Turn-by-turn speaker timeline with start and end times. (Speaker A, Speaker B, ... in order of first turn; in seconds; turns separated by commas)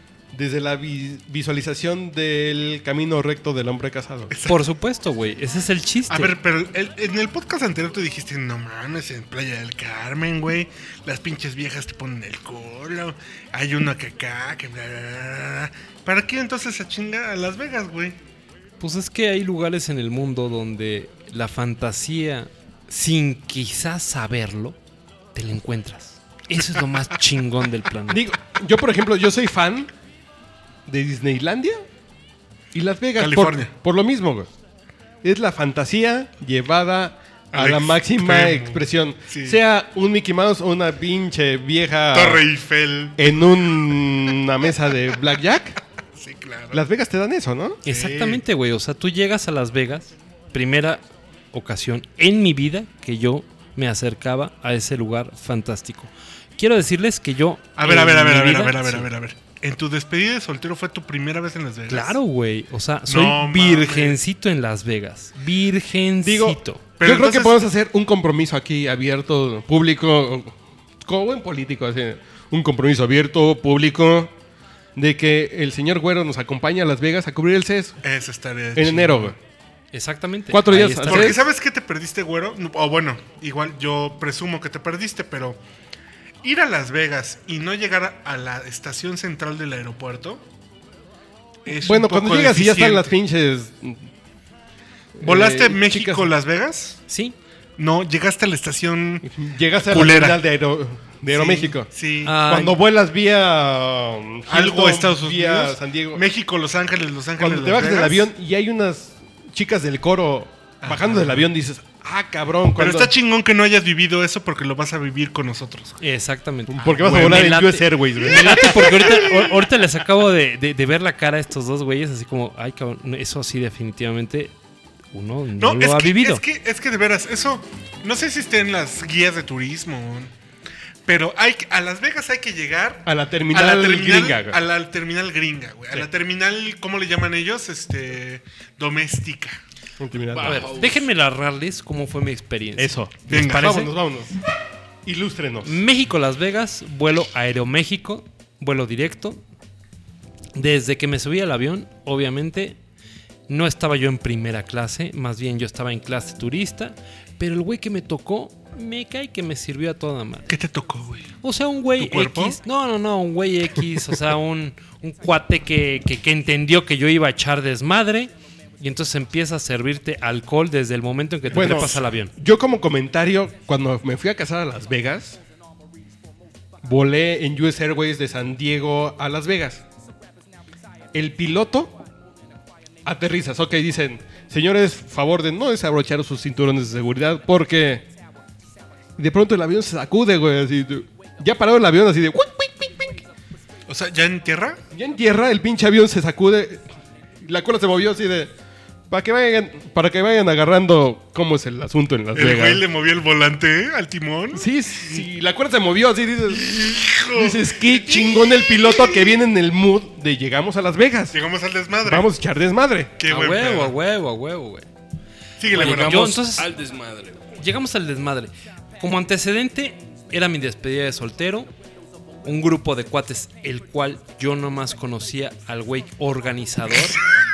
Speaker A: 0.3-4.3, Speaker B: 4.3-4.6, Speaker C: 4.5-6.3, Speaker B: 6.1-18.1, Speaker C: 18.8-24.8, Speaker C: 25.3-28.2, Speaker B: 26.7-27.0, Speaker A: 28.1-29.9, Speaker A: 30.9-31.8, Speaker A: 32.7-34.5, Speaker B: 33.2-33.7, Speaker A: 35.2-42.4, Speaker B: 37.5-39.6, Speaker B: 42.1-43.2, Speaker A: 43.2-45.8, Speaker B: 46.2-46.8, Speaker A: 46.7-47.8, Speaker C: 47.9-51.0, Speaker B: 47.9-48.4, Speaker C: 51.5-59.1, Speaker B: 57.8-62.1, Speaker C: 61.9-66.8, Speaker B: 63.1-64.2, Speaker A: 66.2-74.3, Speaker B: 67.0-67.5, Speaker A: 75.0-78.0, Speaker B: 78.0-79.3, Speaker A: 78.8-79.3, Speaker C: 79.9-81.3, Speaker A: 80.5-81.4, Speaker B: 81.1-85.6, Speaker B: 86.4-90.4, Speaker B: 91.6-93.1, Speaker A: 91.7-94.1, Speaker A: 95.2-96.3, Speaker B: 95.2-97.0, Speaker C: 97.1-97.3, Speaker B: 97.8-100.4, Speaker A: 99.3-101.9, Speaker B: 101.3-102.4, Speaker C: 102.2-102.8, Speaker A: 102.4-106.2, Speaker B: 104.5-108.3, Speaker A: 107.4-113.1, Speaker B: 110.8-111.5, Speaker B: 112.8-116.0, Speaker C: 116.0-124.5, Speaker A: 116.7-119.2, Speaker B: 116.8-117.6, Speaker B: 118.4-119.4, Speaker C: 125.1-126.4, Speaker B: 125.6-130.3, Speaker B: 131.1-139.6, Speaker A: 133.1-134.6, Speaker A: 140.0-140.7, Speaker D: 140.2-141.1, Speaker C: 140.4-142.9, Speaker A: 142.8-144.4, Speaker B: 143.3-143.9, Speaker A: 145.0-145.7, Speaker C: 145.6-149.4, Speaker C: 150.6-152.8, Speaker C: 153.5-160.5, Speaker B: 160.5-161.3, Speaker C: 161.4-172.3, Speaker B: 162.0-162.6, Speaker A: 171.5-175.4, Speaker B: 171.5-172.0, Speaker A: 176.8-179.8, Speaker A: 181.1-181.9, Speaker A: 183.0-188.1, Speaker A: 189.2-193.2, Speaker B: 193.9-194.8, Speaker A: 194.9-196.8, Speaker A: 197.4-198.5, Speaker A: 199.1-202.8, Speaker B: 202.3-204.7, Speaker A: 204.5-211.3, Speaker B: 206.5-208.9, Speaker B: 211.3-212.3, Speaker A: 212.0-213.2, Speaker B: 213.2-213.9, Speaker C: 213.3-214.8, Speaker B: 215.6-216.3, Speaker D: 215.7-217.4, Speaker C: 215.7-216.7, Speaker C: 217.6-221.7, Speaker C: 222.4-227.2